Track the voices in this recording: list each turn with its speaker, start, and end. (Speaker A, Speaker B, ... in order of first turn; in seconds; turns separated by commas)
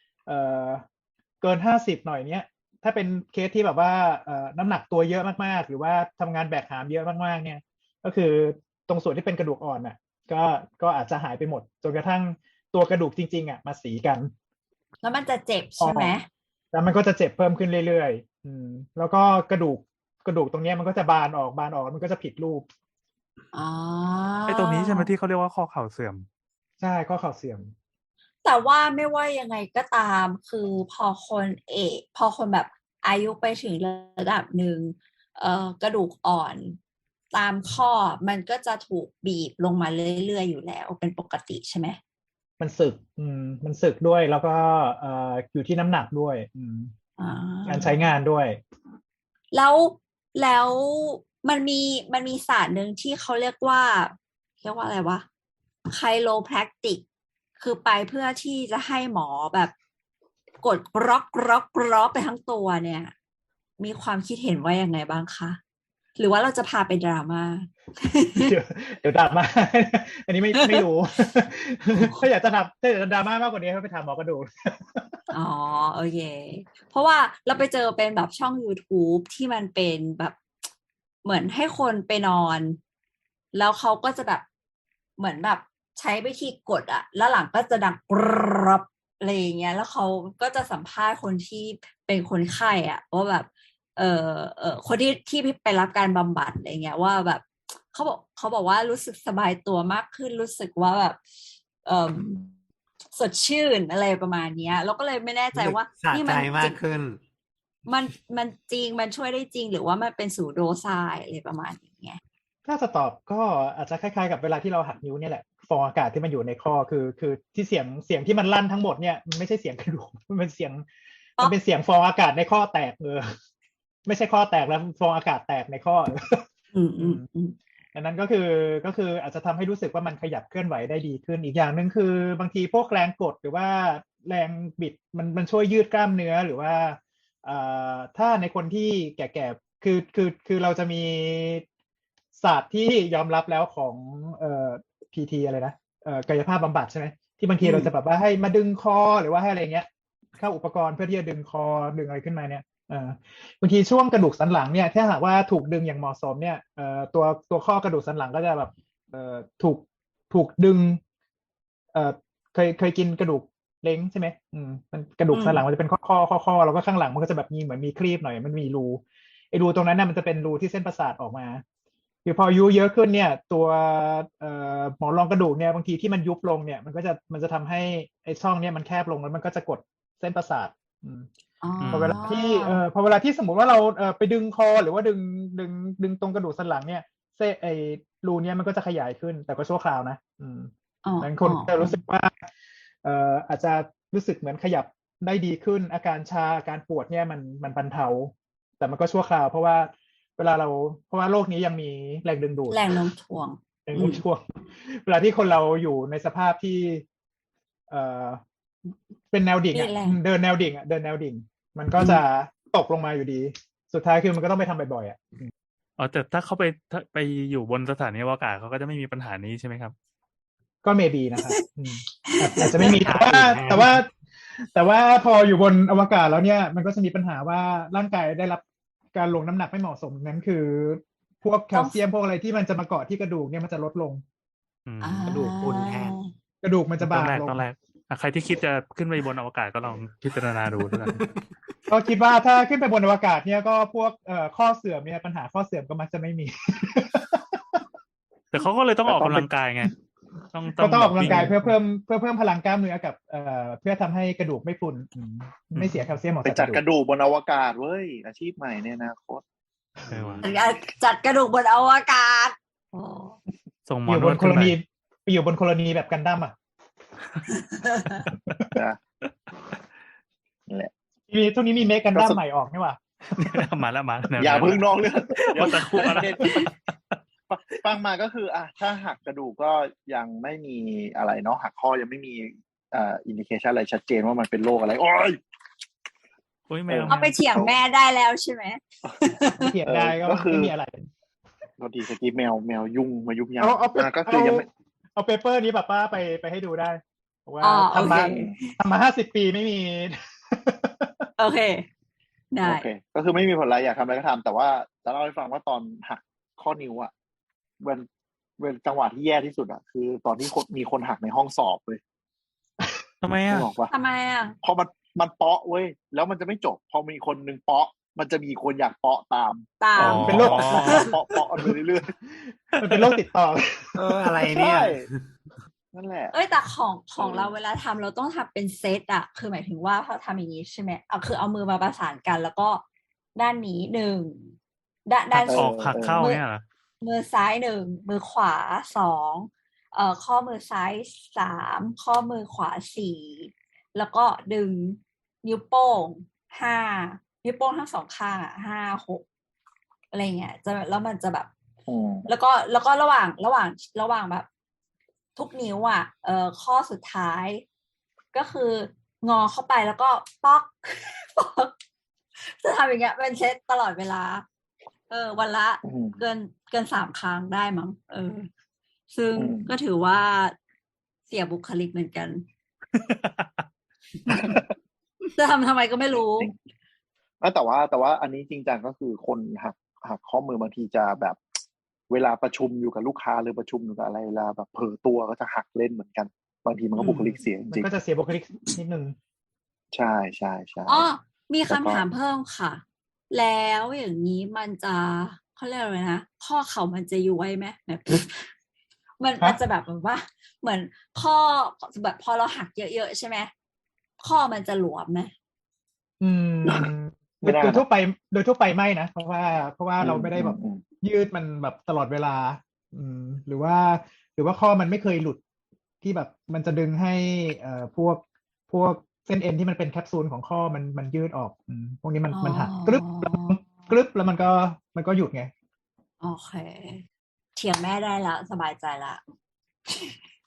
Speaker A: 0.3-0.8, Speaker A: 1.4-14.3, Speaker B: 15.0-16.2, Speaker A: 15.8-16.1, Speaker A: 16.7-22.6, Speaker B: 23.5-25.1, Speaker C: 24.5-26.2, Speaker A: 26.8-27.7, Speaker B: 28.4-36.8, Speaker B: 37.3-42.0, Speaker A: 42.6-46.9, Speaker B: 47.2-48.0, Speaker A: 47.6-48.6, Speaker B: 49.5-55.2, Speaker B: 55.9-57.0, Speaker B: 57.6-59.7, Speaker B: 60.6-63.1, Speaker B: 63.8-65.6, Speaker B: 66.2-68.5, Speaker A: 68.4-75.2, Speaker B: 70.5-70.8, Speaker B: 75.3-80.4, Speaker B: 81.2-82.8, Speaker B: 83.5-84.4, Speaker B: 85.2-101.2, Speaker B: 101.8-102.4, Speaker B: 103.1-106.8, Speaker D: 105.5-107.2, Speaker B: 107.8-112.2, Speaker A: 112.7-120.8, Speaker A: 121.4-123.3, Speaker A: 124.0-126.4, Speaker B: 126.7-127.5, Speaker A: 127.0-127.2, Speaker A: 127.9-141.6, Speaker A: 142.4-149.9, Speaker B: 147.6-147.9, Speaker A: 150.4-161.0, Speaker A: 161.9-171.6, Speaker B: 165.3-165.6, Speaker A: 172.2-181.3, Speaker B: 181.6-182.8, Speaker C: 181.8-182.2, Speaker A: 181.9-192.4, Speaker B: 191.0-192.0, Speaker A: 193.0-202.9, Speaker B: 202.7-204.2, Speaker A: 203.8-207.0, Speaker A: 207.9-208.4, Speaker A: 209.3-215.5, Speaker B: 209.7-210.2, Speaker C: 216.0-219.9, Speaker A: 220.8-224.0, Speaker B: 222.2-223.0, Speaker D: 222.8-224.0, Speaker A: 224.6-228.6, Speaker A: 229.1-234.2, Speaker B: 231.7-232.0, Speaker C: 234.8-235.4, Speaker B: 235.0-236.3, Speaker D: 235.3-236.1, Speaker A: 236.6-237.6, Speaker C: 237.0-241.2, Speaker A: 241.9-247.8, Speaker C: 248.5-249.9, Speaker A: 249.1-249.9, Speaker C: 250.5-251.7, Speaker A: 250.8-256.8, Speaker C: 255.7-256.1, Speaker E: 256.4-259.4, Speaker E: 260.1-260.4, Speaker C: 260.1-260.4, Speaker B: 260.4-263.4, Speaker C: 263.9-264.8, Speaker A: 264.1-266.5, Speaker B: 267.7-268.2, Speaker A: 271.3-273.6, Speaker E: 272.1-272.4, Speaker C: 273.3-277.1, Speaker E: 274.4-276.7, Speaker E: 277.5-285.4, Speaker C: 286.7-287.4, Speaker E: 286.9-287.8, Speaker B: 287.0-289.7, Speaker A: 289.6-291.1, Speaker E: 289.8-290.7, Speaker E: 291.8-294.6, Speaker A: 293.6-301.3, Speaker B: 297.6-298.7, Speaker E: 298.2-298.5, Speaker B: 301.4-301.9, Speaker B: 302.5-302.8, Speaker E: 302.6-307.1, Speaker E: 308.6-312.0, Speaker C: 313.2-313.7, Speaker E: 313.5-313.9, Speaker B: 313.9-314.5, Speaker E: 314.6-319.6, Speaker B: 319.8-321.1, Speaker C: 320.0-321.0, Speaker A: 320.0-321.1, Speaker E: 320.2-322.1, Speaker A: 322.3-324.0, Speaker C: 322.8-323.2, Speaker D: 323.9-325.2, Speaker E: 324.5-325.0, Speaker E: 325.9-326.3, Speaker B: 326.3-332.8, Speaker E: 327.2-327.5, Speaker B: 333.3-334.5, Speaker B: 335.1-336.4, Speaker C: 335.3-336.6, Speaker E: 335.4-336.2, Speaker B: 337.0-349.2, Speaker B: 350.1-351.5, Speaker E: 351.9-352.3, Speaker B: 352.3-354.5, Speaker B: 355.4-357.6, Speaker B: 358.3-361.7, Speaker B: 362.4-364.4, Speaker B: 365.1-368.5, Speaker E: 365.8-366.2, Speaker B: 369.1-370.5, Speaker E: 369.4-369.7, Speaker B: 371.3-372.4, Speaker C: 373.1-373.6, Speaker E: 374.3-374.7, Speaker B: 375.4-376.5, Speaker E: 376.1-376.5, Speaker E: 377.4-381.4, Speaker E: 382.1-387.9, Speaker A: 387.0-389.1, Speaker E: 389.9-391.1, Speaker B: 390.9-398.5, Speaker E: 391.7-392.0, Speaker B: 399.2-403.5, Speaker B: 404.2-405.3, Speaker A: 406.2-415.4, Speaker E: 406.6-406.9, Speaker E: 407.4-407.8, Speaker E: 410.0-410.8, Speaker A: 416.0-425.5, Speaker B: 422.3-423.6, Speaker B: 426.2-427.0, Speaker B: 427.6-429.2